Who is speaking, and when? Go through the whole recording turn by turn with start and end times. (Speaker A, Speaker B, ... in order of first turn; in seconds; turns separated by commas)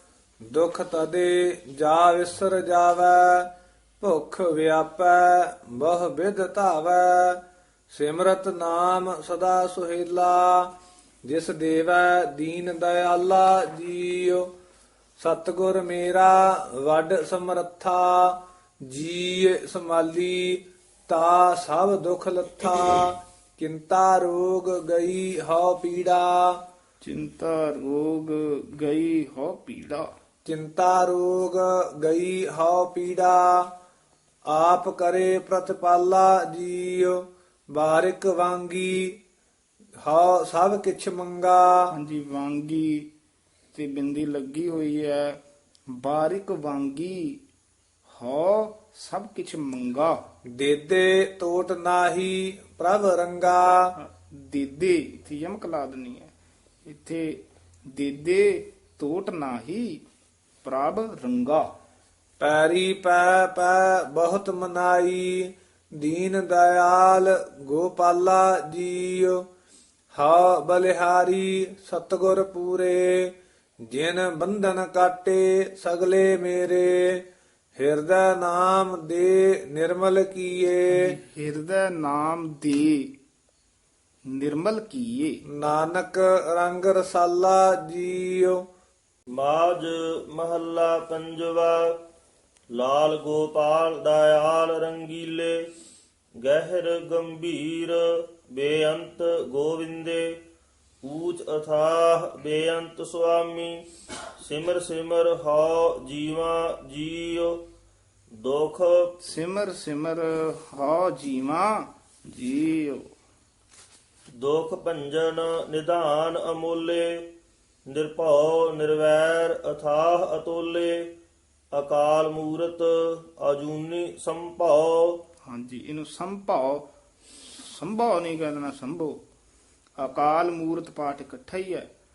Speaker A: 0.5-3.5, Speaker A: 4.0-10.7, Speaker A: 11.3-14.5, Speaker A: 15.2-26.6, Speaker B: 27.0-30.1, Speaker A: 30.4-33.7, Speaker A: 34.5-39.2, Speaker A: 40.0-41.9, Speaker B: 41.9-43.1, Speaker B: 43.7-45.4, Speaker B: 45.9-47.4, Speaker B: 48.1-50.2, Speaker A: 50.5-53.9, Speaker B: 54.0-56.3, Speaker B: 56.8-60.0, Speaker B: 60.6-61.7, Speaker A: 62.4-69.4, Speaker A: 70.1-73.3, Speaker A: 73.9-77.2, Speaker A: 77.8-81.2, Speaker B: 80.9-83.1, Speaker B: 84.3-85.4, Speaker A: 85.5-88.6, Speaker C: 89.3-92.0, Speaker C: 92.7-95.6, Speaker C: 96.4-100.4, Speaker C: 101.0-103.8, Speaker C: 104.4-107.6, Speaker C: 108.4-109.2, Speaker B: 109.2-113.1, Speaker C: 114.4-117.3, Speaker C: 117.9-121.1, Speaker C: 121.7-125.2, Speaker B: 125.5-126.8, Speaker B: 127.4-129.2, Speaker B: 130.0-131.9